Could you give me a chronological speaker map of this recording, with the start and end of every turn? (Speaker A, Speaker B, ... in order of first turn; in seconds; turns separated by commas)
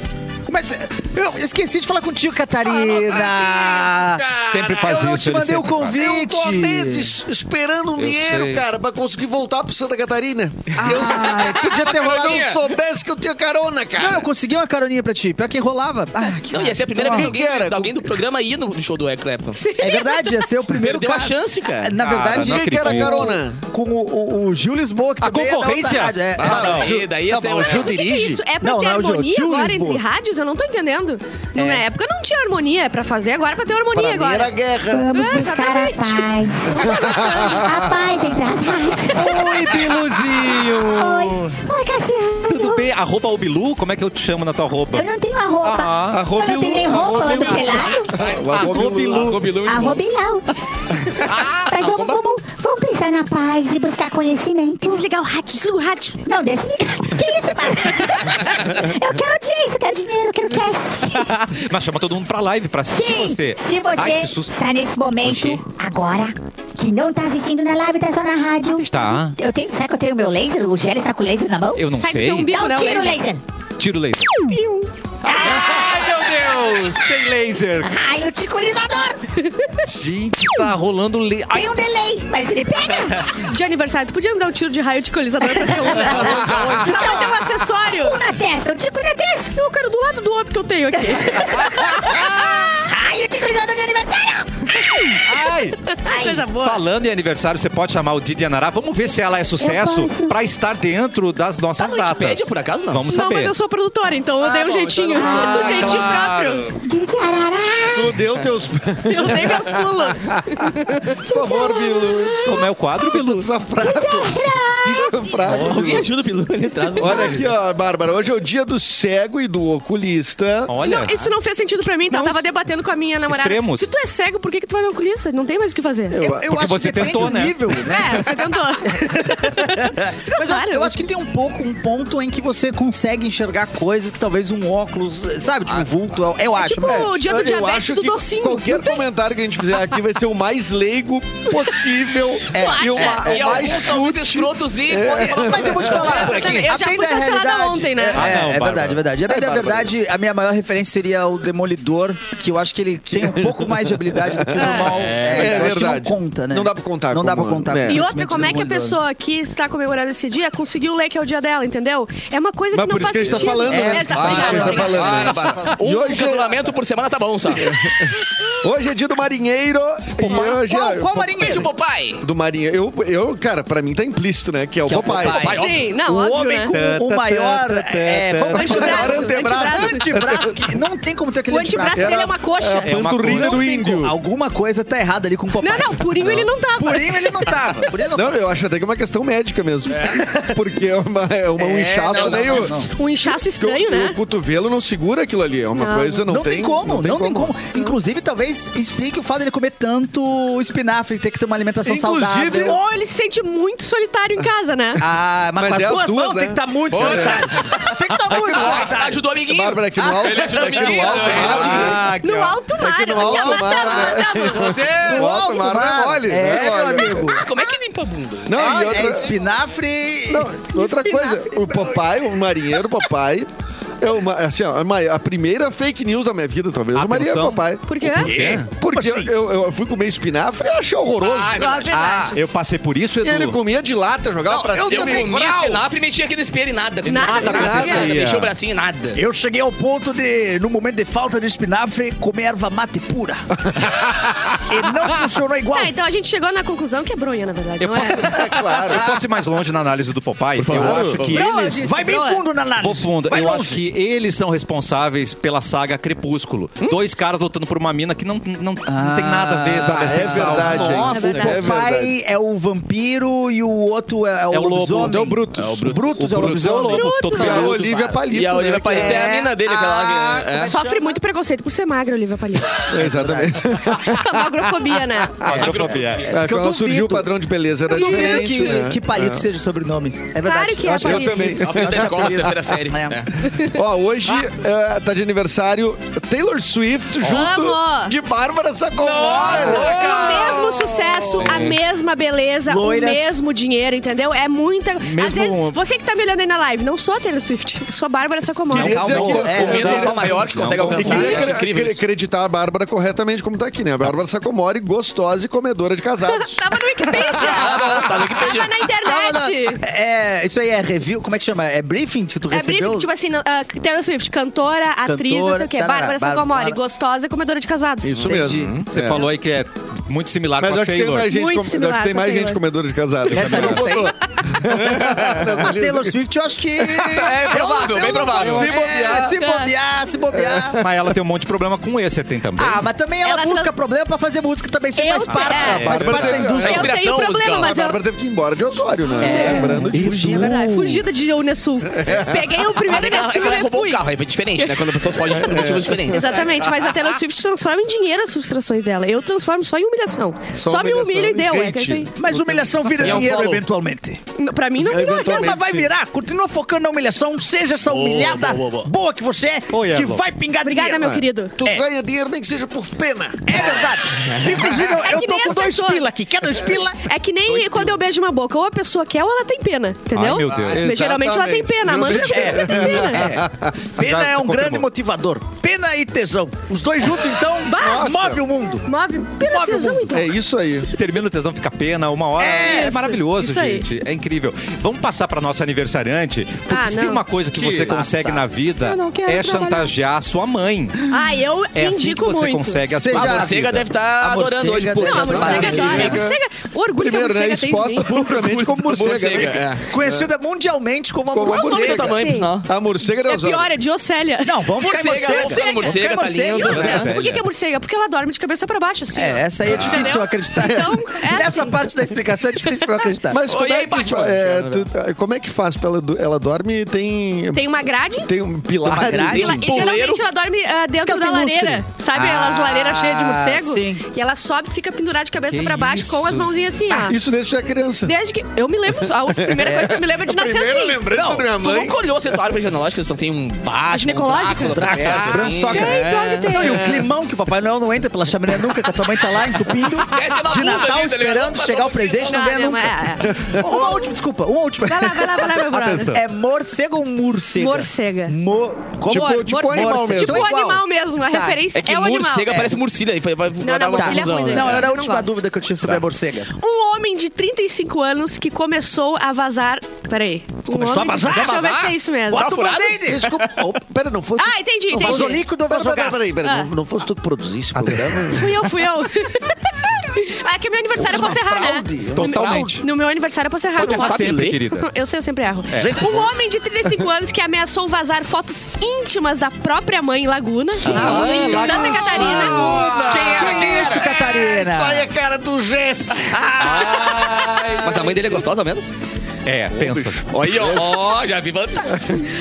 Speaker A: 0.5-7.1, Speaker B: 2.8-3.8, Speaker C: 4.5-6.0, Speaker B: 5.9-14.3, Speaker C: 8.0-8.6, Speaker A: 10.8-12.6, Speaker D: 11.2-12.6, Speaker A: 14.0-17.3, Speaker D: 16.5-19.6, Speaker B: 17.1-18.1, Speaker E: 19.6-20.5, Speaker A: 19.8-26.9, Speaker D: 20.7-22.0, Speaker C: 22.0-23.4, Speaker B: 22.3-23.6, Speaker C: 25.2-26.9, Speaker D: 26.4-28.0, Speaker B: 26.4-28.4, Speaker E: 27.6-34.5, Speaker A: 28.6-30.0, Speaker A: 31.6-31.8, Speaker B: 33.9-35.1, Speaker F: 34.9-39.8, Speaker E: 35.1-37.7, Speaker B: 36.7-38.0, Speaker C: 39.1-41.6, Speaker F: 40.5-42.9, Speaker C: 42.5-45.1, Speaker F: 44.9-48.3, Speaker C: 45.6-46.3, Speaker B: 46.1-49.5, Speaker D: 48.0-50.0, Speaker C: 48.5-49.6, Speaker F: 49.6-50.5, Speaker D: 51.1-52.2, Speaker F: 51.3-55.1, Speaker E: 54.8-56.2, Speaker F: 56.2-61.3, Speaker C: 61.1-64.5, Speaker F: 62.9-71.9, Speaker C: 65.2-65.6, Speaker C: 68.8-69.4, Speaker C: 71.8-72.5, Speaker E: 71.9-73.2, Speaker F: 72.5-73.4, Speaker C: 73.8-74.5, Speaker E: 74.5-74.8, Speaker C: 75.2-77.9, Speaker F: 75.2-79.2, Speaker C: 79.8-81.7, Speaker F: 81.5-83.4, Speaker E: 83.5-88.2, Speaker F: 85.7-89.5, Speaker C: 86.1-87.0, Speaker D: 86.2-87.3, Speaker E: 89.5-92.7, Speaker F: 91.1-95.2, Speaker C: 91.5-92.8, Speaker C: 95.2-95.9, Speaker E: 95.7-96.8, Speaker F: 96.1-96.5, Speaker C: 96.5-103.5, Speaker F: 99.6-100.4, Speaker D: 101.8-103.0, Speaker E: 103.1-106.7, Speaker D: 104.4-106.0, Speaker C: 105.1-106.8, Speaker F: 105.2-105.7, Speaker F: 106.8-108.2, Speaker B: 107.9-109.9, Speaker E: 109.1-111.2, Speaker B: 111.2-116.1, Speaker F: 111.2-112.7, Speaker C: 112.4-113.6, Speaker F: 113.8-115.2, Speaker D: 115.5-117.5, Speaker B: 117.0-120.7, Speaker C: 120.7-121.2, Speaker E: 120.8-126.2, Speaker C: 122.1-122.5, Speaker C: 123.3-123.9, Speaker B: 126.1-127.1, Speaker A: 126.2-137.1, Speaker C: 126.5-127.6, Speaker E: 127.7-131.0, Speaker D: 135.6-135.9, Speaker E: 136.6-139.1, Speaker B: 136.9-146.1, Speaker E: 142.5-143.4, Speaker A: 142.5-143.8, Speaker D: 143.0-146.7, Speaker A: 145.2-159.0, Speaker E: 145.9-148.3, Speaker C: 148.1-149.1, Speaker B: 149.2-149.9, Speaker B: 153.2-158.1, Speaker E: 154.5-155.0, Speaker D: 154.9-155.6, Speaker C: 155.1-155.6, Speaker E: 157.9-165.3, Speaker B: 162.7-166.6, Speaker A: 163.4-165.1, Speaker D: 164.1-167.8, Speaker C: 165.5-165.8, Speaker B: 167.5-171.7, Speaker A: 170.2-171.7, Speaker D: 171.3-172.2, Speaker B: 172.2-175.5, Speaker A: 174.9-182.2, Speaker D: 175.2-175.8, Speaker E: 175.4-176.8, Speaker C: 176.7-178.8, Speaker B: 178.5-180.6, Speaker E: 178.5-180.5, Speaker E: 181.5-182.9, Speaker B: 181.9-184.2, Speaker C: 182.9-183.7, Speaker A: 183.0-188.4, Speaker E: 185.6-187.6, Speaker B: 188.1-197.5, Speaker D: 189.9-190.3, Speaker A: 191.6-192.9, Speaker D: 192.1-192.7, Speaker E: 192.9-194.2, Speaker E: 195.7-196.3, Speaker A: 196.3-202.8, Speaker B: 201.8-202.8, Speaker E: 202.6-205.0, Speaker A: 205.0-209.2, Speaker B: 205.6-207.7, Speaker D: 206.9-212.0, Speaker B: 208.3-208.9, Speaker B: 209.4-212.2, Speaker A: 210.0-212.1, Speaker C: 211.3-212.6, Speaker E: 212.1-215.0, Speaker B: 212.8-217.3, Speaker A: 213.1-217.4, Speaker D: 217.1-219.3, Speaker B: 218.4-219.3, Speaker A: 218.5-220.5, Speaker B: 220.3-223.5, Speaker E: 220.7-221.6, Speaker B: 224.0-227.9, Speaker C: 226.9-228.7, Speaker E: 227.9-228.3, Speaker A: 228.1-229.3, Speaker B: 228.7-231.7, Speaker D: 231.2-231.9, Speaker E: 231.6-232.4, Speaker A: 231.9-232.3, Speaker C: 232.0-233.6, Speaker B: 233.2-235.9, Speaker D: 234.4-239.2, Speaker E: 237.1-238.0, Speaker C: 237.2-238.5, Speaker B: 237.4-238.4, Speaker A: 237.5-238.2, Speaker A: 239.1-243.9, Speaker A: 244.6-245.9, Speaker E: 245.7-248.5, Speaker C: 247.8-251.9, Speaker B: 248.1-249.1, Speaker A: 248.9-249.2, Speaker D: 250.6-251.4, Speaker B: 250.7-251.2, Speaker E: 251.3-252.4, Speaker A: 251.4-253.8, Speaker C: 252.8-261.1, Speaker A: 258.9-267.9, Speaker B: 259.8-262.1, Speaker D: 260.5-261.7, Speaker E: 260.8-261.6, Speaker C: 264.5-268.1, Speaker D: 265.6-266.8, Speaker E: 266.9-267.8, Speaker B: 267.3-269.4, Speaker D: 268.2-270.8, Speaker A: 268.9-271.2, Speaker E: 270.7-272.8, Speaker B: 272.9-274.3, Speaker A: 272.9-273.9, Speaker E: 273.9-275.5, Speaker B: 275.4-275.8, Speaker C: 275.4-276.4, Speaker D: 275.5-276.4, Speaker A: 276.3-277.3, Speaker B: 276.3-279.4, Speaker A: 277.9-283.3, Speaker E: 277.9-278.8, Speaker E: 280.4-281.6, Speaker B: 281.0-282.6, Speaker D: 281.5-283.3, Speaker E: 283.4-283.8, Speaker B: 283.6-290.3, Speaker E: 287.2-288.1, Speaker C: 289.0-290.7, Speaker A: 289.1-291.6, Speaker E: 289.5-299.2, Speaker D: 291.4-291.8, Speaker A: 292.7-293.4, Speaker C: 295.0-295.8, Speaker C: 298.7-301.5, Speaker B: 298.7-306.6, Speaker A: 299.0-301.5, Speaker D: 299.4-302.0, Speaker E: 306.2-309.8, Speaker A: 307.2-308.3, Speaker D: 307.3-308.8, Speaker A: 309.0-313.1, Speaker E: 312.5-318.4, Speaker A: 315.0-316.8, Speaker B: 318.0-319.3, Speaker A: 318.2-318.8, Speaker C: 318.8-321.3, Speaker B: 320.6-326.1, Speaker E: 321.2-322.6, Speaker C: 323.2-324.0, Speaker A: 323.3-324.1, Speaker D: 324.7-325.3, Speaker A: 325.1-330.8, Speaker B: 326.8-329.4, Speaker D: 327.0-328.7, Speaker E: 329.4-329.7, Speaker B: 330.3-330.9, Speaker C: 330.8-332.8, Speaker A: 332.6-336.9, Speaker E: 333.2-333.7, Speaker E: 334.9-338.0, Speaker C: 335.3-336.5, Speaker B: 335.6-336.9, Speaker D: 336.5-337.8, Speaker B: 337.6-340.4, Speaker A: 339.2-341.0, Speaker E: 339.2-339.7, Speaker C: 339.9-340.7, Speaker E: 340.3-344.1, Speaker B: 342.0-342.5, Speaker D: 342.8-346.3, Speaker E: 344.6-344.9, Speaker B: 345.3-346.5, Speaker E: 346.1-352.1, Speaker B: 350.5-353.2, Speaker A: 352.1-354.2, Speaker D: 353.0-353.6, Speaker E: 354.4-355.6, Speaker B: 354.8-355.9, Speaker A: 354.9-361.9, Speaker D: 357.9-358.9, Speaker C: 359.7-360.2, Speaker E: 360.6-361.6, Speaker B: 361.0-363.8, Speaker A: 363.5-367.9, Speaker E: 364.7-366.1, Speaker E: 367.0-373.3, Speaker C: 370.1-370.9, Speaker D: 370.5-370.8, Speaker B: 370.7-373.7, Speaker A: 372.0-378.9, Speaker C: 374.0-374.9, Speaker E: 377.6-378.2, Speaker B: 377.8-378.4, Speaker E: 378.9-380.4, Speaker A: 379.4-380.2, Speaker B: 380.1-380.9, Speaker C: 380.9-391.1, Speaker A: 382.4-383.0, Speaker E: 382.4-383.9, Speaker E: 386.7-387.2, Speaker B: 387.5-388.0, Speaker A: 387.9-389.8, Speaker E: 391.1-392.8, Speaker C: 391.7-393.8, Speaker A: 392.9-396.3, Speaker D: 393.1-396.2, Speaker E: 395.0-398.4, Speaker B: 395.3-396.4, Speaker B: 397.0-400.3, Speaker D: 398.3-399.9, Speaker A: 399.9-402.1, Speaker B: 401.3-403.7, Speaker E: 401.5-402.5, Speaker D: 401.5-402.7, Speaker E: 403.2-411.9, Speaker A: 404.4-407.1, Speaker D: 404.8-407.1, Speaker C: 406.7-407.5, Speaker A: 409.1-413.4, Speaker B: 413.3-419.8, Speaker D: 413.5-414.9, Speaker E: 417.5-418.3, Speaker A: 418.8-419.6, Speaker D: 419.1-420.2, Speaker E: 419.4-427.2, Speaker A: 421.0-424.0, Speaker C: 425.5-426.6, Speaker B: 426.9-428.1, Speaker E: 428.0-431.0, Speaker B: 429.2-432.0, Speaker A: 429.6-430.0, Speaker A: 431.1-431.5, Speaker D: 431.6-436.6, Speaker E: 433.9-434.9, Speaker A: 434.7-451.6, Speaker E: 435.6-436.9, Speaker D: 439.8-442.4, Speaker E: 442.2-444.1, Speaker B: 443.2-443.6, Speaker E: 444.9-446.2, Speaker C: 445.7-446.2, Speaker E: 447.6-448.4, Speaker B: 449.1-450.5, Speaker E: 449.1-452.7, Speaker D: 451.8-454.9, Speaker E: 453.6-455.4, Speaker A: 454.0-456.5, Speaker E: 456.6-462.5, Speaker A: 460.7-461.8, Speaker D: 461.2-463.6, Speaker A: 462.3-463.3, Speaker B: 463.1-468.6, Speaker E: 464.4-465.4, Speaker A: 464.9-466.4, Speaker E: 466.4-466.7, Speaker A: 467.7-468.3, Speaker E: 468.3-482.8, Speaker B: 471.0-472.8, Speaker C: 472.1-472.8, Speaker D: 473.8-474.6, Speaker C: 473.8-474.9, Speaker C: 475.7-476.3, Speaker A: 480.9-485.1, Speaker D: 480.9-481.8, Speaker B: 480.9-487.0, Speaker D: 482.4-484.1, Speaker A: 486.3-487.3, Speaker C: 486.6-488.1, Speaker B: 487.7-488.1, Speaker D: 487.8-488.9, Speaker C: 489.4-490.3, Speaker B: 489.7-491.0, Speaker D: 490.3-492.2